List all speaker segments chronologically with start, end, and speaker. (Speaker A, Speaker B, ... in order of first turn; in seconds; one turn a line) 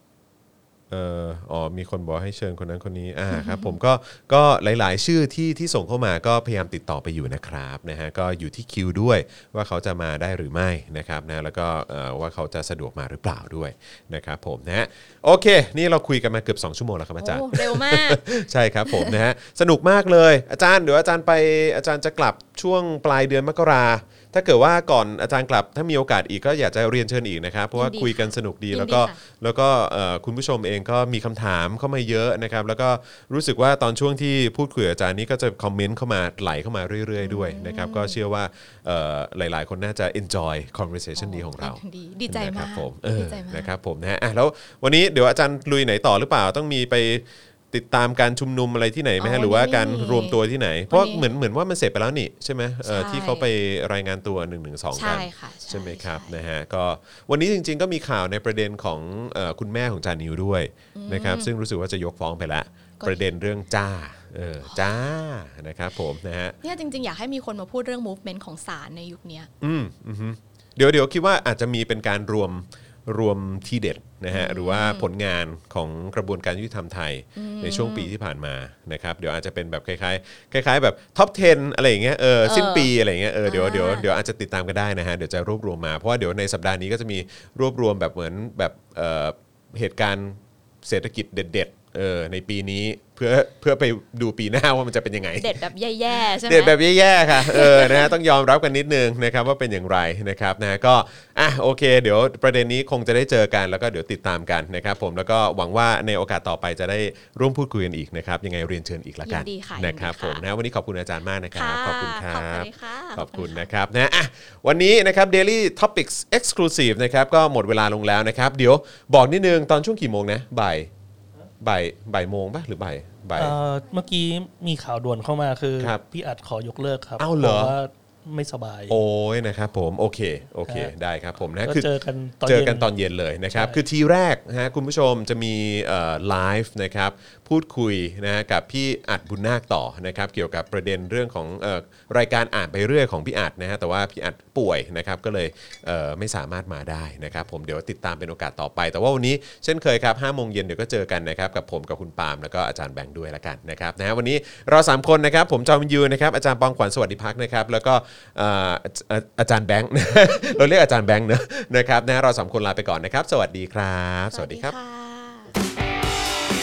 Speaker A: 0.9-66.6
Speaker B: 3.3-3.8
Speaker B: 17.2-18.2
Speaker B: 18.9-19.1
Speaker B: 27.7-29.2
Speaker B: 37.2-38.1
Speaker B: 41.2-43.7
Speaker B: 49.2-50.4
Speaker B: 50.9-51.3
Speaker B: 52.8-53.5
Speaker B: 54.9-56.4
Speaker B: 60.9-61.5
Speaker B: 66.6-69.5
Speaker A: 69.6-95.6
Speaker B: 74.3-75.1
Speaker B: 77.3-78.1
Speaker B: 82.4-82.9
Speaker B: 83.4-84.1
Speaker B: 95.4-96.8
Speaker A: 96.2-120.9
Speaker B: 97.3-98.1
Speaker B: 109.2-110.4
Speaker B: 111.5-113.6
Speaker A: 121.6-123.5
Speaker C: 123.4-129.0
Speaker A: 127.2-127.7
Speaker A: 128.9-131.9
Speaker C: 130.7-130.9
Speaker C: 131.6-132.9
Speaker A: 132.4-164.7
Speaker C: 133.5-133.8
Speaker B: 164.3-165.6